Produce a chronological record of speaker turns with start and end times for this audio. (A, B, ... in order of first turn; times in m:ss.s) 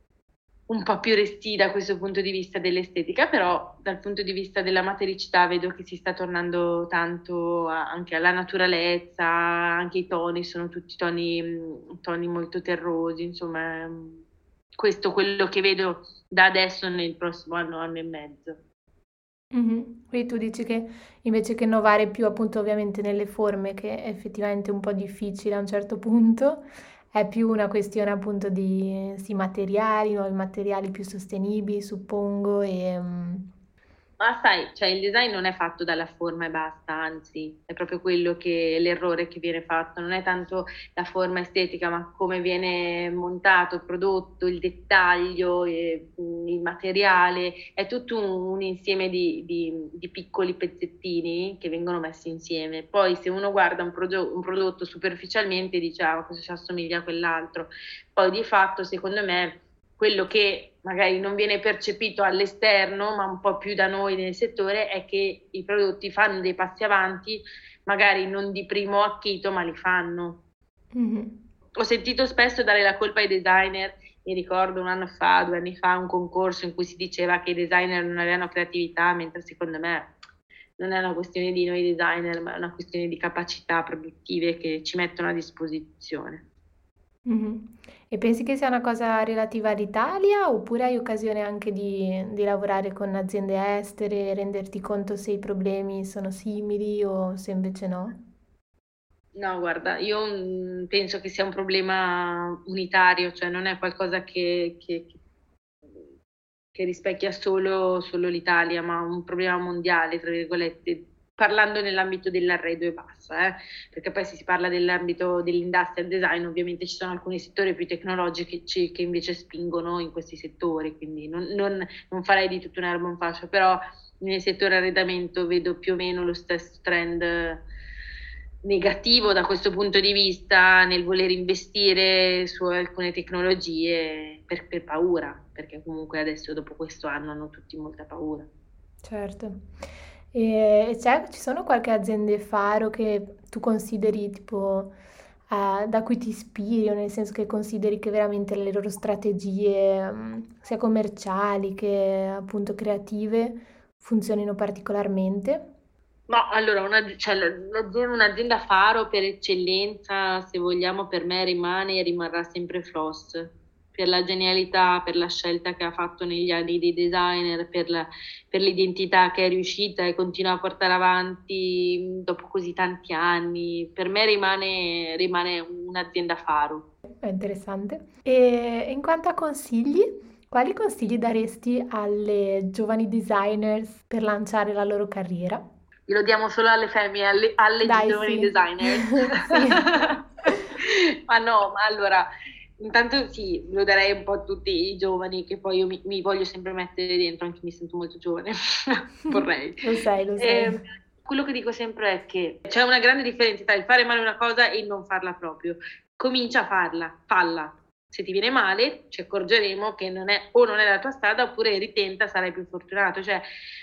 0:00.7-0:14.2 A
0:14.8-0:18.6 A
0:19.5-0:33.4 B
0:34.2-1:10.4 A
1:10.9-1:11.4 B
1:11.8-1:20.1 A
1:20.8-1:26.4 A
1:27.2-1:38.2 B
1:39.4-1:45.2 A
1:46.8-2:07.6 A
2:08.6-2:18.5 A
2:19.0-2:19.6 B
2:20.3-2:24.9 B
2:25.5-2:35.6 B
2:36.3-2:56.9 A
2:57.2-3:05.6 B
3:06.1-3:12.3 A
3:07.8-3:09.8 B
3:12.8-3:19.9 A
3:19.3-3:20.8 B
3:20.4-3:33.4 A